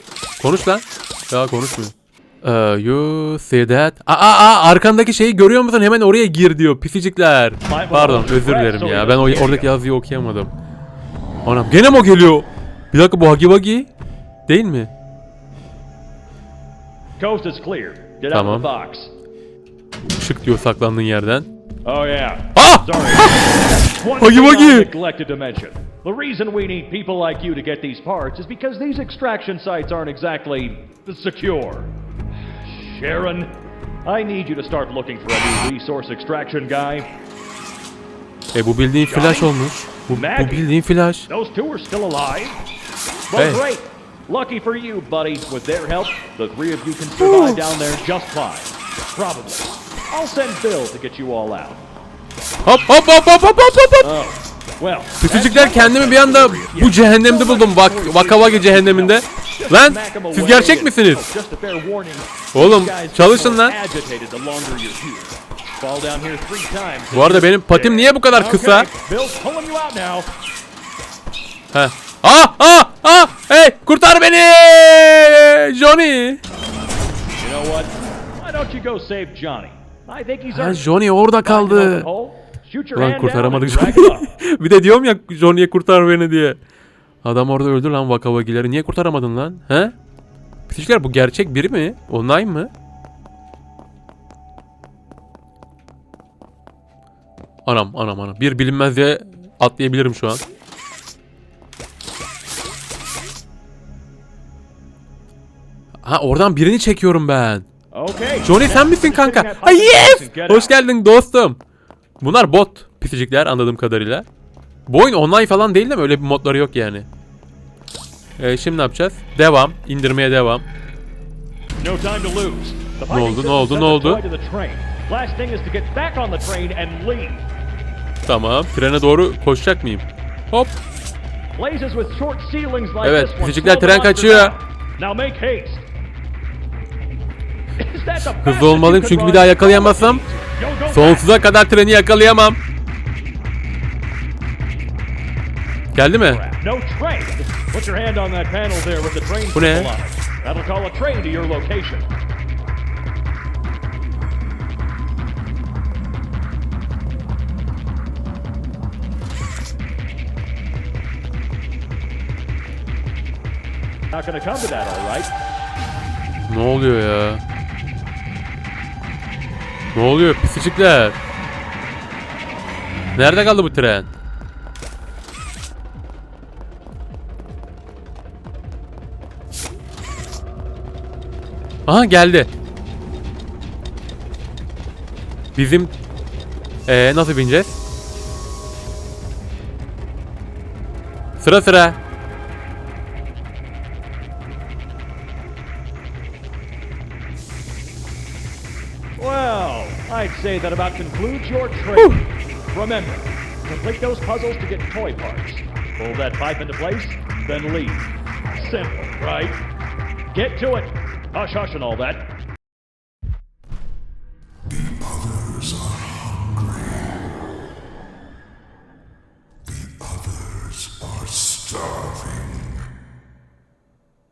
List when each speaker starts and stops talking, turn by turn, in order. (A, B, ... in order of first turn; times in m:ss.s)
0:00.4-0:10.5 A
0:07.7-0:09.8 B
0:11.4-0:13.9 A
0:14.5-0:14.9 A
0:17.2-0:19.1 B
0:18.3-0:18.7 A
0:20.1-0:21.5 A
0:21.8-0:31.9 B
0:22.6-0:23.6 A
0:24.2-0:24.9 A
0:32.6-0:33.5 B
0:34.0-0:37.1 B
0:38.5-0:41.3 A
0:39.1-0:39.5 B
0:40.1-0:40.7 B
0:41.3-0:42.6 B
0:43.3-0:51.8 B
0:43.4-0:43.6 A
0:47.2-0:47.7 A
0:52.6-0:54.1 A
0:54.0-1:10.3 B
0:55.2-1:01.2 A
1:02.5-1:03.8 A
1:07.1-1:08.9 A
1:11.7-1:16.4 A
1:17.4-1:20.8 B
1:20.5-1:22.1 A
1:21.4-1:24.3 B
1:23.0-1:26.6 A
1:27.2-1:30.0 A
1:30.7-1:32.7 A
1:37.6-1:40.4 A
1:46.0-1:47.7 A
1:47.9-1:50.8 B
1:48.4-1:51.6 A
1:52.2-1:54.3 A
1:54.9-1:57.1 A
1:58.4-2:00.7 A
2:01.8-2:07.5 B
2:03.1-2:04.2 A
2:08.3-2:10.8 A
2:11.6-2:15.8 B
2:13.0-2:14.6 A
2:17.8-2:21.5 B
2:18.4-2:20.2 A
2:20.9-2:22.6 A
2:25.9-2:26.4 A
2:26.2-2:32.1 B
2:29.5-2:29.9 A
2:44.1-2:45.3 B
2:46.5-2:47.4 A
2:49.9-2:51.2 A
2:53.1-2:54.1 A
3:01.9-3:02.5 A
3:05.6-3:05.9 A
3:06.9-3:07.8 A
3:11.4-3:12.0 A
3:19.2-3:29.6 B
3:22.0-3:22.3 A
3:30.3-3:32.3 B
3:34.7-3:37.2 C
3:39.6-3:42.9 C